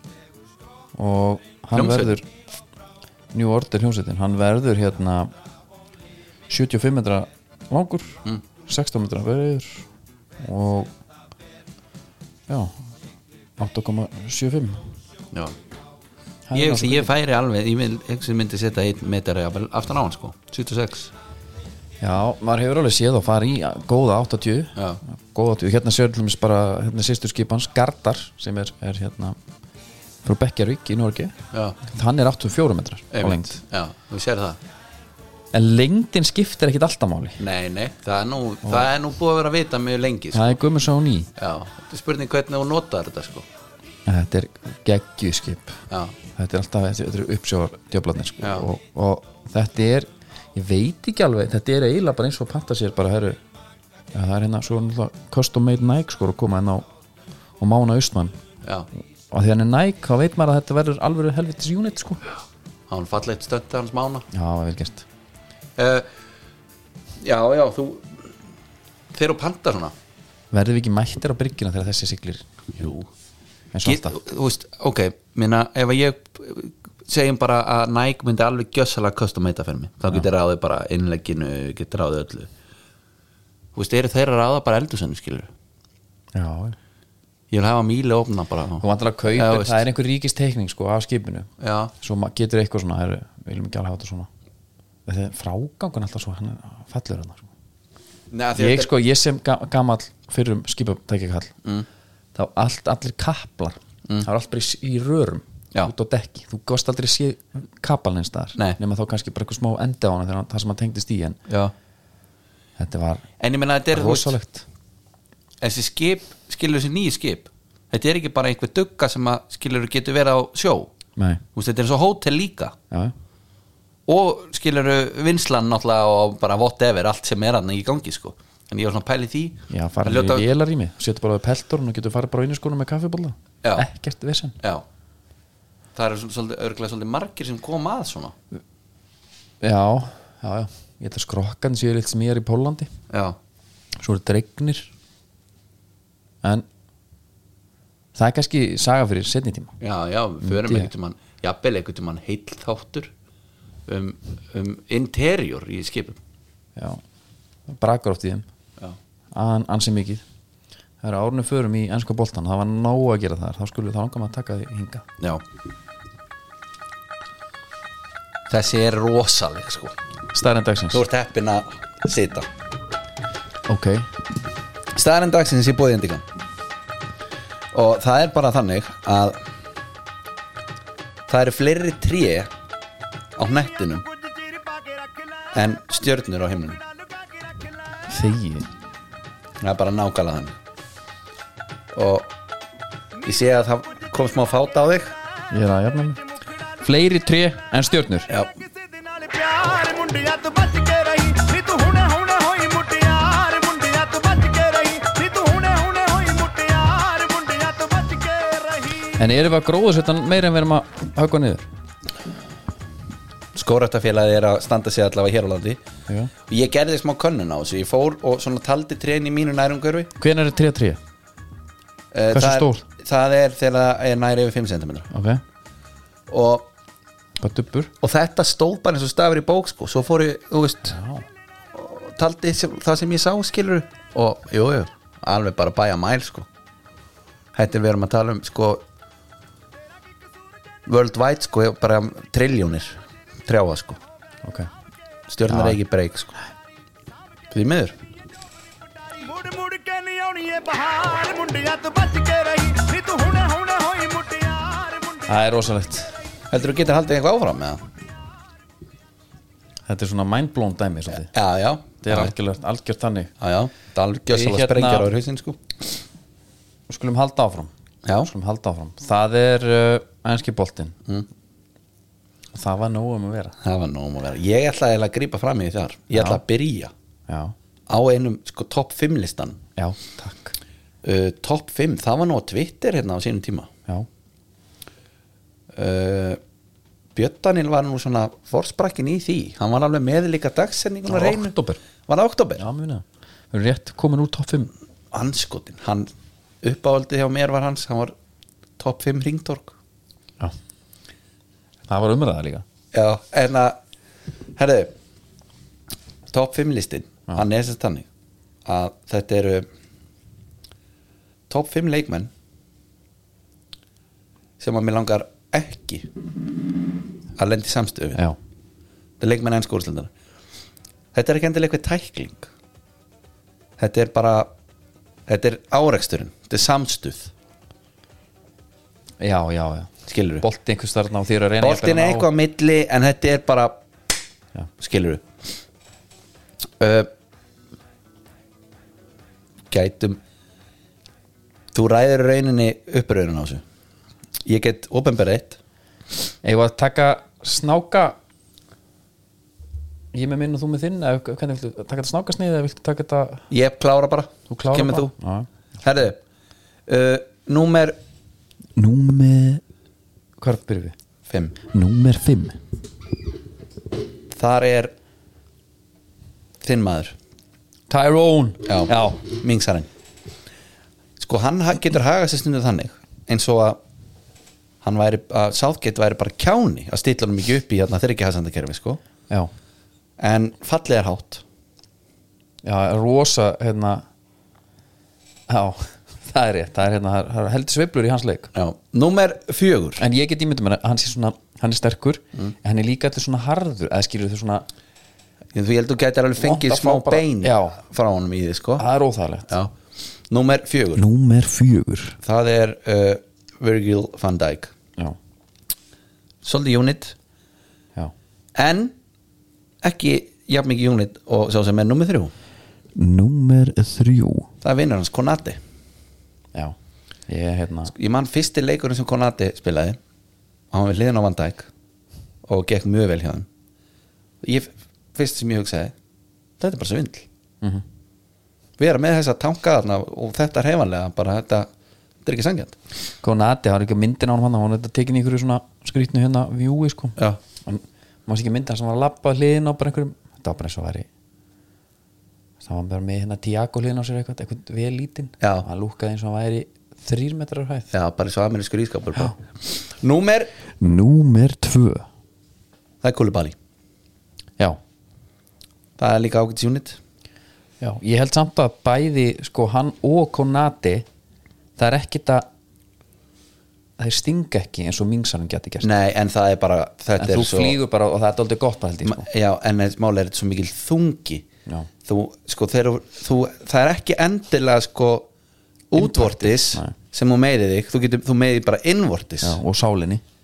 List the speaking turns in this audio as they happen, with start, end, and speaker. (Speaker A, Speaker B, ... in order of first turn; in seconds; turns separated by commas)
Speaker A: 0.9-2.3, Speaker B: 1.7-2.2, Speaker A: 3.3-5.3, Speaker A: 6.5-9.9, Speaker A: 10.4-10.9, Speaker A: 12.5-12.8, Speaker A: 13.6-14.9, Speaker A: 16.5-17.1, Speaker B: 16.5-21.1, Speaker A: 22.0-29.4, Speaker B: 24.8-25.0, Speaker A: 30.2-33.6, Speaker B: 31.5-31.8, Speaker B: 33.1-34.6, Speaker A: 35.5-37.4, Speaker B: 37.4-40.5, Speaker A: 40.3-41.3, Speaker B: 41.4-43.5, Speaker A: 44.0-45.8, Speaker B: 45.9-46.1, Speaker A: 46.4-53.4, Speaker B: 48.4-48.7, Speaker A: 54.1-56.9, Speaker A: 57.6-58.4, Speaker A: 59.3-62.2, Speaker B: 62.9-64.3, Speaker A: 64.3-65.0, Speaker B: 65.8-66.1, Speaker B: 67.2-68.3, Speaker B: 69.1-69.9, Speaker A: 70.5-72.4, Speaker B: 72.7-73.1, Speaker A: 73.7-74.2, Speaker B: 73.8-82.5, Speaker B: 83.7-85.5, Speaker A: 86.3-86.8, Speaker B: 87.5-89.8, Speaker A: 88.8-94.3, Speaker B: 91.6-91.9, Speaker A: 95.0-97.5, Speaker B: 98.3-98.9, Speaker A: 98.6-101.5, Speaker A: 102.3-111.4, Speaker A: 112.8-113.2, Speaker B: 113.4-114.3, Speaker A: 113.9-114.6, Speaker B: 115.6-120.9, Speaker A: 121.2-121.4, Speaker B: 121.5-122.8, Speaker B: 124.1-130.4, Speaker A: 129.7-134.6, Speaker B: 135.9-138.3, Speaker A: 139.6-142.9, Speaker B: 143.1-143.4, Speaker A: 144.0-144.9, Speaker A: 148.1-149.7, Speaker B: 149.8-153.1, Speaker A: 150.4-150.9, Speaker B: 153.9-156.2, Speaker A: 156.8-157.0, Speaker A: 157.7-158.4, Speaker A: 159.3-160.2, Speaker A: 161.0-165.0, Speaker B: 168.5-169.9, Speaker A: 170.3-171.0, Speaker B: 170.9-172.5, Speaker A: 173.7-174.1, Speaker B: 174.9-176.2, Speaker B: 177.7-179.4, Speaker B: 181.3-182.5, Speaker B: 183.4-184.0, Speaker C: 184.5-185.3, Speaker B: 185.5-186.8, Speaker A: 188.1-188.7, Speaker B: 189.6-190.5, Speaker B: 191.9-192.3, Speaker B: 193.2-195.1, Speaker A: 195.5-196.2, Speaker A: 196.8-198.3, Speaker C: 198.8-209.1, Speaker A: 209.2-211.7, Speaker B: 213.5-215.8, Speaker B: 216.5-220.1, Speaker A: 220.2-221.0, Speaker B: 222.1-225.1, Speaker A: 222.3-222.8, Speaker A: 225.1-225.4, Speaker B: 226.3-226.7, Speaker A: 227.4-227.9, Speaker B: 228.0-231.0, Speaker A: 230.9-231.2, Speaker B: 231.7-236.5, Speaker B: 237.5-238.8, Speaker B: 240.9-244.0, Speaker A: 244.4-244.7, Speaker B: 245.3-246.3, Speaker A: 245.5-245.8, Speaker B: 247.5-248.0, Speaker C: 249.1-255.3, Speaker A: 255.3-256.1, Speaker B: 256.5-257.9, Speaker A: 259.9-261.3, Speaker B: 261.2-262.3, Speaker A: 262.0-263.3, Speaker B: 263.4-265.7, Speaker A: 264.3-265.1, Speaker A: 266.9-267.7, Speaker B: 268.0-268.3, Speaker A: 268.2-271.0, Speaker A: 272.5-273.5, Speaker B: 273.6-276.9, Speaker A: 276.1-276.4, Speaker A: 277.3-277.5, Speaker B: 277.9-279.6, Speaker A: 279.8-280.5, Speaker B: 281.0-283.7, Speaker B: 285.7-286.4, Speaker B: 287.1-291.6, Speaker A: 291.1-291.8, Speaker B: 292.1-292.6, Speaker A: 292.6-294.7, Speaker B: 295.1-296.1, Speaker B: 296.6-298.1, Speaker B: 298.8-299.7, Speaker A: 301.9-302.6, Speaker B: 302.9-303.8, Speaker B: 304.6-304.9, Speaker B: 306.3-308.1, Speaker B: 308.6-309.6, Speaker B: 311.5-312.3, Speaker B: 314.6-316.1, Speaker B: 317.4-318.2, Speaker B: 319.2-320.1, Speaker B: 321.1-322.5, Speaker B: 323.8-324.5, Speaker B: 325.3-327.3, Speaker A: 329.2-332.3, Speaker B: 330.1-330.4, Speaker B: 331.6-333.8, Speaker B: 334.8-335.2, Speaker B: 336.8-337.1, Speaker B: 339.7-340.2, Speaker B: 341.7-343.6, Speaker B: 344.4-345.6, Speaker A: 346.4-348.2, Speaker A: 350.1-353.5, Speaker B: 353.5-355.1, Speaker A: 354.5-355.5, Speaker B: 355.8-356.2, Speaker B: 356.9-358.0, Speaker A: 358.8-359.6, Speaker A: 360.4-360.9, Speaker B: 361.3-361.6, Speaker A: 361.6-362.6, Speaker B: 364.3-364.9, Speaker B: 366.6-367.1, Speaker A: 367.9-369.2, Speaker B: 368.6-369.9, Speaker B: 371.2-373.8, Speaker B: 374.8-379.0, Speaker B: 380.2-381.4, Speaker A: 382.6-384.0, Speaker A: 385.5-388.5, Speaker B: 388.5-390.0, Speaker A: 390.0-394.7, Speaker B: 395.5-398.9, Speaker A: 396.4-397.8, Speaker A: 398.8-399.5, Speaker B: 399.5-399.7, Speaker B: 400.3-401.0, Speaker A: 400.9-402.2, Speaker B: 402.2-404.7, Speaker B: 406.4-407.1, Speaker B: 408.5-408.9, Speaker B: 409.8-412.3, Speaker A: 412.9-414.5, Speaker B: 414.6-415.6, Speaker A: 417.3-417.9, Speaker B: 417.9-420.0, Speaker B: 420.7-421.7, Speaker B: 422.4-423.5, Speaker B: 424.4-425.9, Speaker B: 426.6-427.3, Speaker B: 428.8-431.7, Speaker B: 432.2-432.8, Speaker A: 433.2-441.1, Speaker A: 442.6-447.9, Speaker B: 445.4-445.7, Speaker B: 447.9-450.5, Speaker A: 450.8-452.1, Speaker B: 453.0-453.6, Speaker B: 456.0-457.0, Speaker A: 457.8-461.1, Speaker A: 461.8-462.5, Speaker A: 464.0-465.9, Speaker B: 465.8-467.8, Speaker A: 467.2-469.3, Speaker B: 469.0-471.4, Speaker B: 472.0-475.3, Speaker B: 475.9-479.6, Speaker A: 475.9-476.9, Speaker A: 479.4-480.2